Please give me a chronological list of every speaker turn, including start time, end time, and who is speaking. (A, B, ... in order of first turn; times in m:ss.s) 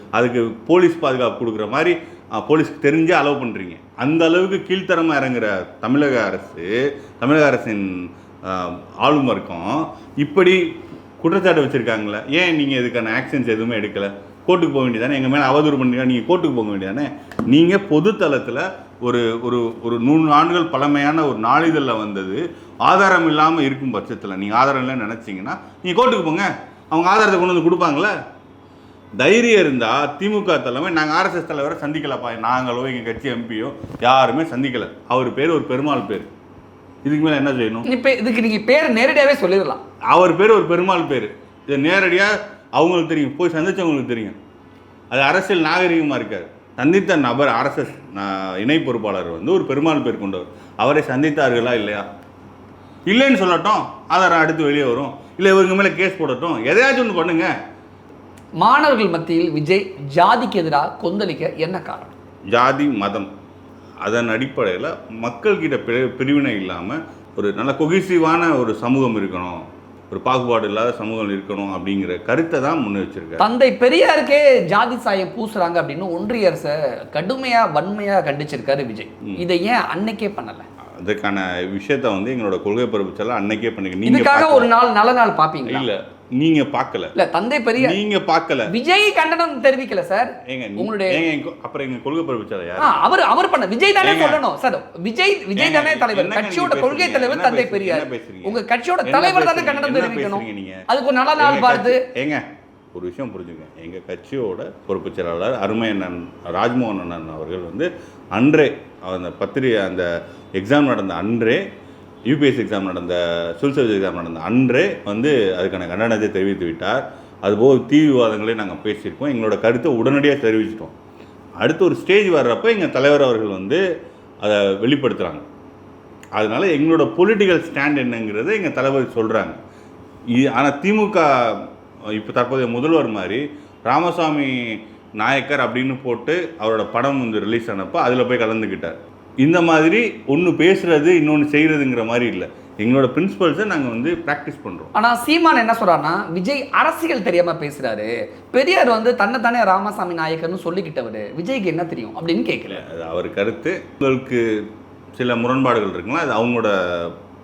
0:00.2-0:10.6 A
0:11.2-0:28.1 A
0:29.2-0:36.3 A
0:37.0-0:37.9 A
0:37.8-0:39.8 B
0:40.1-0:44.4 A
0:45.1-0:52.0 A
0:53.1-0:57.5 A
0:58.6-1:02.1 B
1:02.5-1:03.3 A
1:04.0-1:13.4 A
1:13.4-1:20.6 B
1:21.0-1:24.7 A
1:24.0-1:25.8 B
1:25.7-1:27.1 A
1:27.2-1:28.0 B
1:27.8-1:28.7 A
1:28.7-1:31.2 B
1:30.4-1:33.0 A
1:32.8-1:42.0 B
1:34.0-1:34.4 A
1:35.5-1:40.8 A
1:41.4-1:51.6 A
1:52.3-2:00.9 A
2:01.6-2:03.8 A
2:04.4-2:05.4 A
2:06.4-2:09.6 A
2:10.3-2:24.9 A
2:24.9-2:32.8 B
2:32.7-2:34.4 A
2:35.2-2:37.1 A